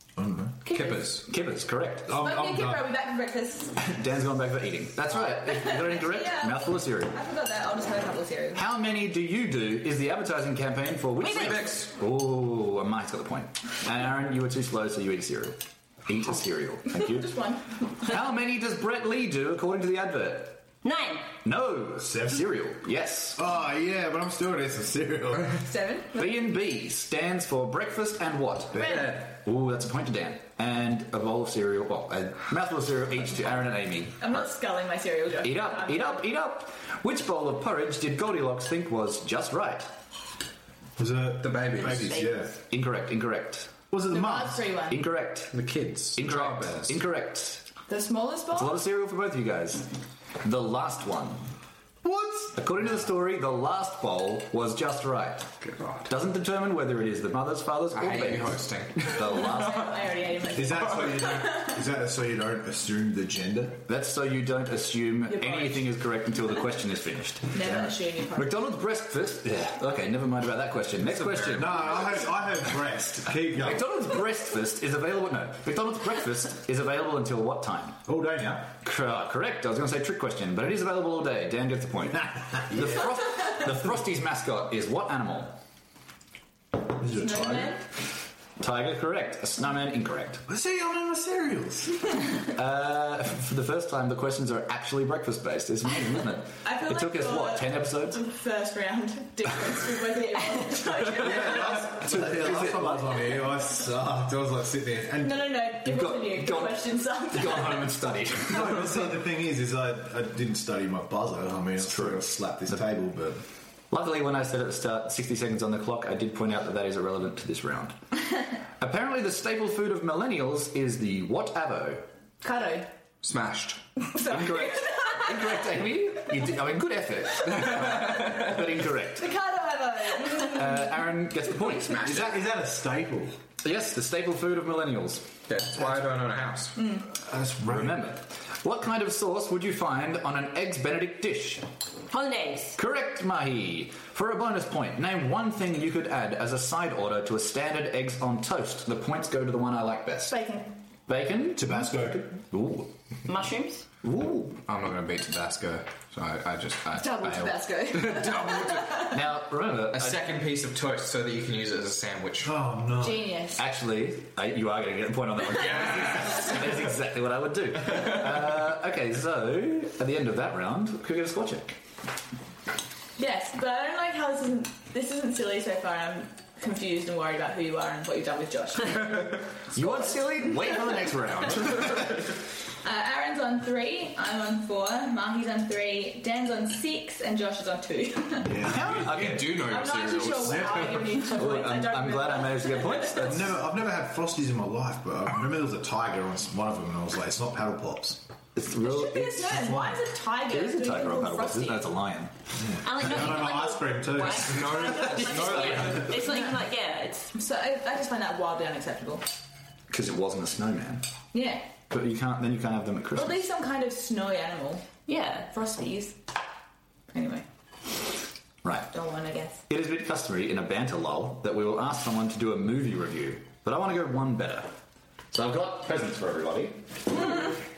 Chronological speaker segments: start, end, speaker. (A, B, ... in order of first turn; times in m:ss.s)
0:00.2-0:00.6 A
0:00.6-0:01.2 B
0:00.7-0:01.3 C
0:01.2-0:02.2 D
0:02.1-0:02.8 A
0:02.1-0:03.8 B
0:03.8-0:07.2 D
0:05.2-0:08.6 B
0:08.5-0:17.4 D
0:11.2-0:11.9 C
0:11.3-0:11.6 E
0:16.9-0:17.8 B
0:18.0-0:20.6 D
0:20.8-0:21.3 E
0:21.4-0:23.4 D
0:22.0-0:22.5 A
0:23.3-0:25.6 A
0:25.6-0:26.3 B
0:26.1-0:34.5 D
0:28.8-0:29.1 A
0:34.2-0:36.2 B
0:35.4-0:39.9 D
0:41.0-0:42.6 A
0:41.4-0:42.3 C
0:42.6-0:43.7 D
0:43.9-0:44.7 A
0:44.1-0:45.0 B
0:44.9-0:45.5 D
0:45.5-0:47.0 C
0:46.2-0:47.7 D
0:47.9-0:48.8 B
0:48.5-0:49.9 D
0:50.4-0:51.4 D
0:52.0-0:52.5 A
0:52.5-0:59.9 D
0:55.6-0:56.1 C
0:57.9-0:59.5 C
0:59.1-1:01.7 B
1:00.5-1:03.8 A
1:03.8-1:12.2 D
1:07.5-1:08.6 B
1:11.0-1:12.2 C
1:11.5-1:13.9 A
1:13.5-1:18.0 D
1:18.0-1:18.7 A
1:18.7-1:25.6 D
1:22.7-1:23.1 A
1:27.0-1:27.7 A
1:27.0-1:27.8 B
1:28.6-1:30.4 D
1:30.5-1:32.1 A
1:32.5-1:38.2 D
1:36.6-1:41.9 B
1:41.1-1:45.4 A
1:41.4-1:43.4 D
1:45.2-1:47.9 B
1:45.8-1:49.2 D
1:48.5-1:53.4 A
1:51.8-1:52.7 D
1:53.9-1:58.0 D
1:58.8-2:02.1 D
2:02.4-2:02.9 B
2:03.2-2:03.8 C
2:04.1-2:05.3 B
2:04.2-2:09.3 D
2:07.6-2:08.4 C
2:09.2-2:10.9 B
2:10.4-2:12.4 D
2:11.9-2:13.4 A
2:13.6-2:15.4 D
2:15.5-2:16.8 C
2:16.8-2:17.0 B
2:17.2-2:18.0 A
2:17.6-2:21.6 D
2:22.1-2:22.8 E
2:22.8-2:30.4 D
2:30.3-2:30.8 B
2:31.1-2:32.9 D
2:31.5-2:32.3 A
2:33.2-2:33.8 E
2:34.0-2:34.6 D
2:34.6-2:39.1 C
2:36.9-2:39.1 B
2:39.0-2:40.2 D
2:39.9-2:42.5 C
2:42.4-2:43.3 A
2:43.0-2:43.6 B
2:43.6-2:51.8 D
2:45.6-2:46.5 C
2:53.2-3:01.0 B
2:59.7-3:02.3 D
3:02.8-3:08.6 B
3:08.4-3:09.2 A
3:08.6-3:09.6 D
3:08.6-3:11.0 C
3:09.6-3:13.3 B
3:10.5-3:11.0 A
3:11.2-3:13.6 D
3:13.2-3:18.2 A
3:18.6-3:19.9 D
3:18.8-3:21.9 B
3:20.4-3:22.3 D
3:22.6-3:25.1 A
3:22.8-3:27.3 E
3:24.4-3:26.2 C
3:25.4-3:26.1 D
3:27.3-3:29.2 B
3:29.9-3:31.0 D
3:31.3-3:31.7 B
3:31.9-3:33.4 D
3:33.1-3:34.9 B
3:35.1-3:35.5 E
3:35.5-3:36.2 B
3:37.1-3:37.4 B
3:38.6-3:38.9 D
3:38.9-3:39.6 B
3:39.7-3:44.7 D
3:45.3-3:47.2 D